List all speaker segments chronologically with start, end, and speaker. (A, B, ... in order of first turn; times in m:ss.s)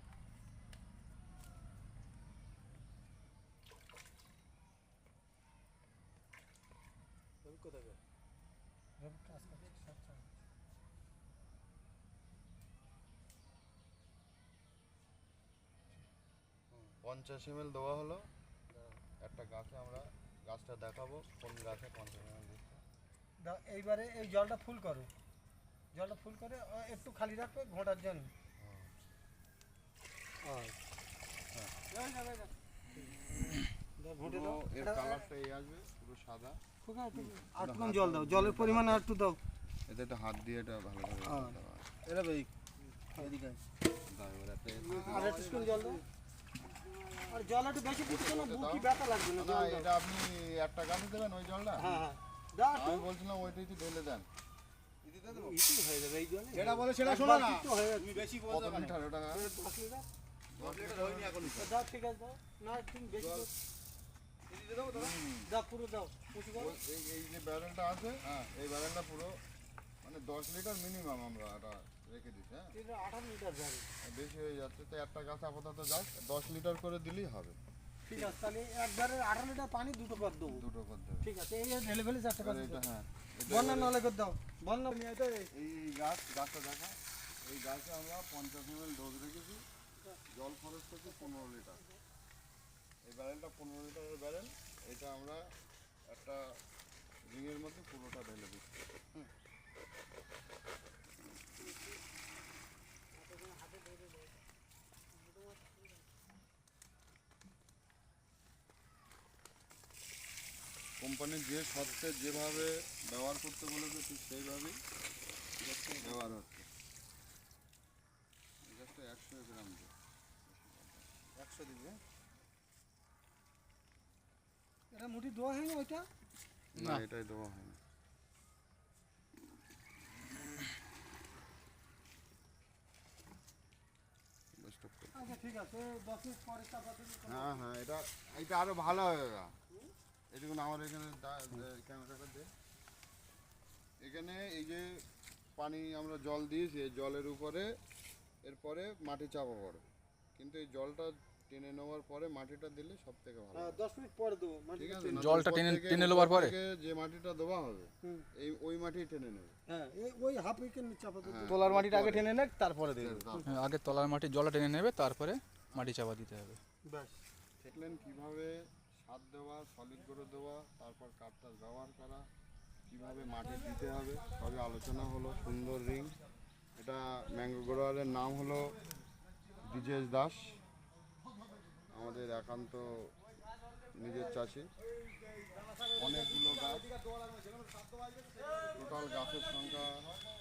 0:07.4-0:08.0 A
0:09.0-0:10.3 B
0:17.0-0:18.3 C
0:19.2-0:22.8 C
0:23.4-0:25.1 B
0:25.9-0:28.3 B
0:28.6-0:28.9 C
0:30.4-0:30.8 B
0:31.9-0:32.5 B
0:34.0-0:35.3 B
0:34.2-0:36.6 C
0:36.8-0:39.4 B
0:37.3-0:39.0 C
0:39.9-0:41.9 C
0:42.0-0:43.6 A
0:44.0-0:45.5 C
0:44.8-0:46.0 B
0:44.9-0:46.0 A
0:46.7-0:47.4 A
0:47.3-0:49.9 B
0:48.0-0:51.9 C
0:51.8-0:53.1 B
0:52.7-0:54.3 C
0:55.0-0:55.6 A
0:55.2-0:58.3 B
0:56.5-0:58.9 A
0:58.4-0:59.5 C
0:59.3-1:00.1 B
1:00.5-1:01.6 C
1:00.6-1:01.8 A
1:01.6-1:03.5 B
1:04.5-1:05.1 A
1:04.8-1:05.5 C
1:05.4-1:06.8 B
1:06.5-1:09.4 C
1:08.2-1:08.5 A
1:10.0-1:12.8 C
1:12.7-1:13.9 B
1:14.0-1:17.6 C
1:18.1-1:20.6 B
1:18.1-1:18.4 A
1:20.4-1:21.3 C
1:21.2-1:22.8 B
1:22.4-1:24.0 C
1:23.5-1:25.0 B
1:25.0-1:25.5 A
1:25.5-1:29.6 C
1:30.3-1:31.8 C
1:31.2-1:31.6 B
1:33.0-1:35.5 C
1:36.1-1:36.6 C
1:37.2-1:38.7 C
1:43.1-1:44.4 B
1:45.1-1:46.1 B
1:51.0-1:54.8 C
1:55.6-1:56.3 A
1:56.0-1:56.7 C
1:58.6-1:59.9 C
2:00.4-2:01.1 C
2:01.3-2:02.0 A
2:04.9-2:06.1 B
2:06.7-2:07.8 C
2:06.8-2:07.0 D
2:14.6-2:15.1 C
2:15.1-2:17.6 B
2:17.2-2:19.5 C
2:20.3-2:22.5 C
2:24.0-2:25.0 C
2:25.6-2:27.7 C
2:28.4-2:29.8 C
2:30.4-2:33.8 C
2:33.5-2:35.2 B
2:34.7-2:39.5 C
2:35.1-2:36.6 D
2:39.7-2:41.6 B
2:41.2-2:42.3 C
2:41.4-2:43.3 A
2:43.0-2:43.7 C
2:43.4-2:46.6 D
2:46.8-2:47.2 B
2:47.6-2:52.3 C
2:52.9-2:56.2 C
2:56.8-2:58.7 C
2:59.6-3:00.6 C
3:01.9-3:03.1 C
3:03.9-3:04.7 C
3:05.9-3:06.9 C
3:08.7-3:10.1 C